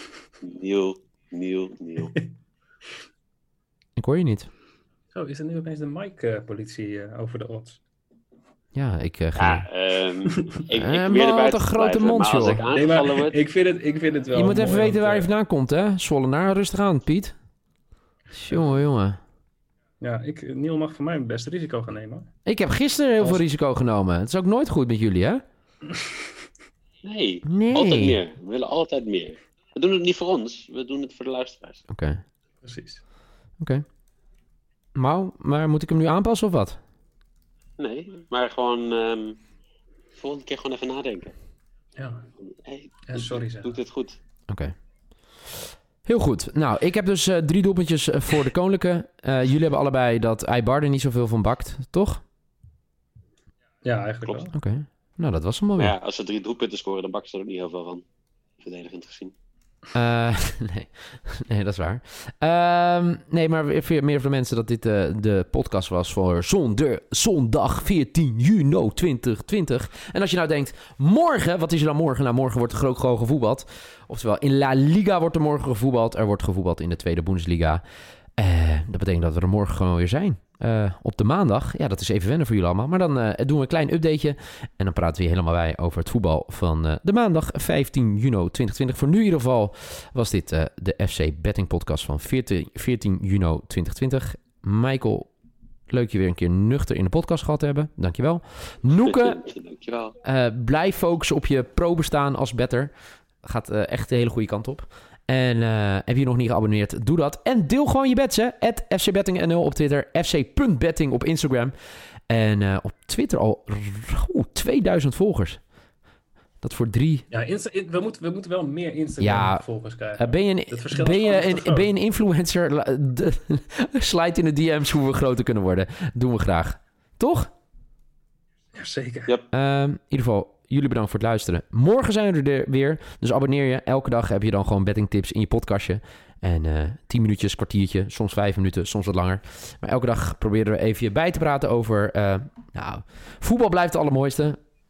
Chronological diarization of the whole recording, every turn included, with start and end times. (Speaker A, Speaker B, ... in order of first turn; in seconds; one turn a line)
Speaker A: 0.4-2.1
Speaker B: 4.0-4.5
Speaker C: 5.1-7.8
Speaker B: 8.7-9.7
Speaker A: 9.4-13.4
Speaker B: 10.7-12.6
Speaker C: 12.7-15.3
Speaker B: 14.3-17.3
Speaker B: 18.3-19.2
Speaker C: 18.5-18.8
Speaker C: 20.0-22.3
Speaker B: 22.4-25.4
Speaker A: 27.0-31.8
Speaker B: 27.4-28.2
Speaker B: 31.9-32.2
Speaker C: 32.6-33.0
Speaker B: 34.9-36.8
Speaker A: 37.8-39.4
Speaker A: 40.1-41.3
Speaker C: 42.0-42.2
Speaker A: 42.4-44.2
Speaker C: 43.1-43.8
Speaker B: 44.5-44.7
Speaker B: 46.0-52.2
Speaker C: 53.8-54.5
Speaker B: 54.5-55.9
Speaker A: 55.8-58.0
Speaker A: 58.6-59.3
Speaker B: 59.9-77.8
Speaker B: 78.4-95.3
Speaker B: 95.9-99.4
Speaker A: 99.0-100.2
Speaker B: 100.2-111.7
Speaker B: 112.3-115.6
Speaker B: 116.6-117.3
Speaker C: 117.3-121.9
Speaker B: 119.2-119.6
Speaker B: 120.2-127.5
Speaker C: 128.8-129.4
Speaker B: 129.5-144.6